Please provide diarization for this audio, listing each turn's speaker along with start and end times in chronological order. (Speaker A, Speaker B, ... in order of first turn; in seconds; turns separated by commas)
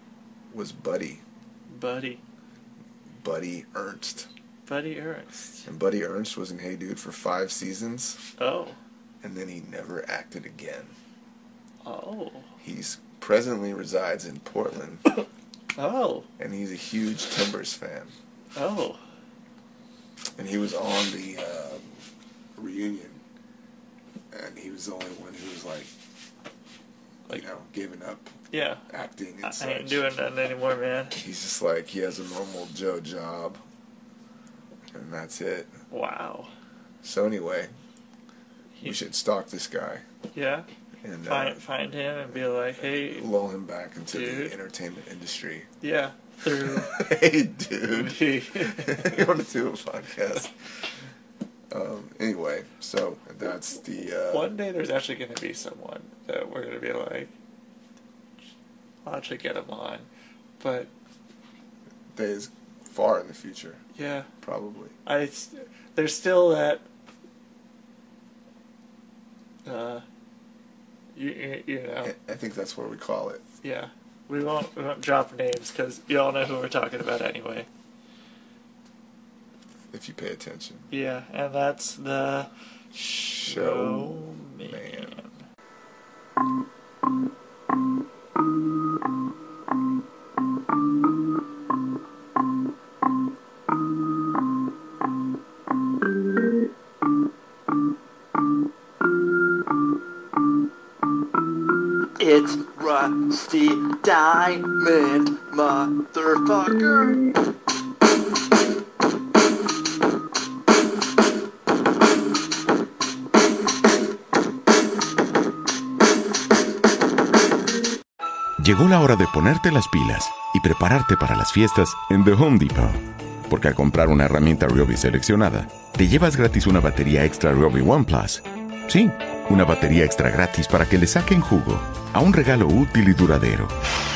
Speaker A: 0.5-1.2, Speaker B: 1.7-2.2, Speaker A: 3.2-4.3, Speaker B: 4.7-5.7, Speaker A: 5.7-8.2, Speaker B: 8.4-8.8, Speaker A: 9.2-10.9, Speaker B: 11.8-12.5, Speaker A: 12.6-15.1, Speaker B: 15.8-16.3, Speaker A: 16.4-18.1, Speaker B: 18.6-19.0, Speaker A: 20.4-22.0, Speaker A: 22.6-23.2, Speaker A: 24.3-25.9, Speaker A: 27.3-28.4, Speaker B: 28.5-28.9, Speaker A: 28.9-30.0, Speaker B: 29.4-31.2, Speaker A: 31.2-33.6, Speaker A: 34.9-35.8, Speaker B: 35.9-36.5, Speaker A: 37.0-37.7, Speaker A: 38.8-40.0, Speaker B: 40.3-40.7, Speaker A: 41.0-41.6, Speaker B: 41.3-43.3, Speaker A: 42.3-45.7, Speaker B: 44.1-44.5, Speaker B: 45.8-47.0, Speaker A: 46.6-50.5, Speaker B: 47.9-49.3, Speaker A: 51.7-54.5, Speaker B: 54.3-57.3, Speaker B: 59.0-60.1, Speaker B: 60.6-60.9, Speaker A: 62.1-63.8, Speaker B: 64.0-64.3, Speaker A: 64.4-65.0, Speaker B: 65.1-66.8, Speaker B: 69.7-70.0, Speaker B: 71.2-72.1, Speaker A: 72.0-73.4, Speaker B: 73.6-77.7, Speaker A: 79.9-80.9, Speaker B: 80.9-85.4, Speaker A: 83.3-85.2, Speaker B: 102.2-107.3, Speaker C: 118.6-133.7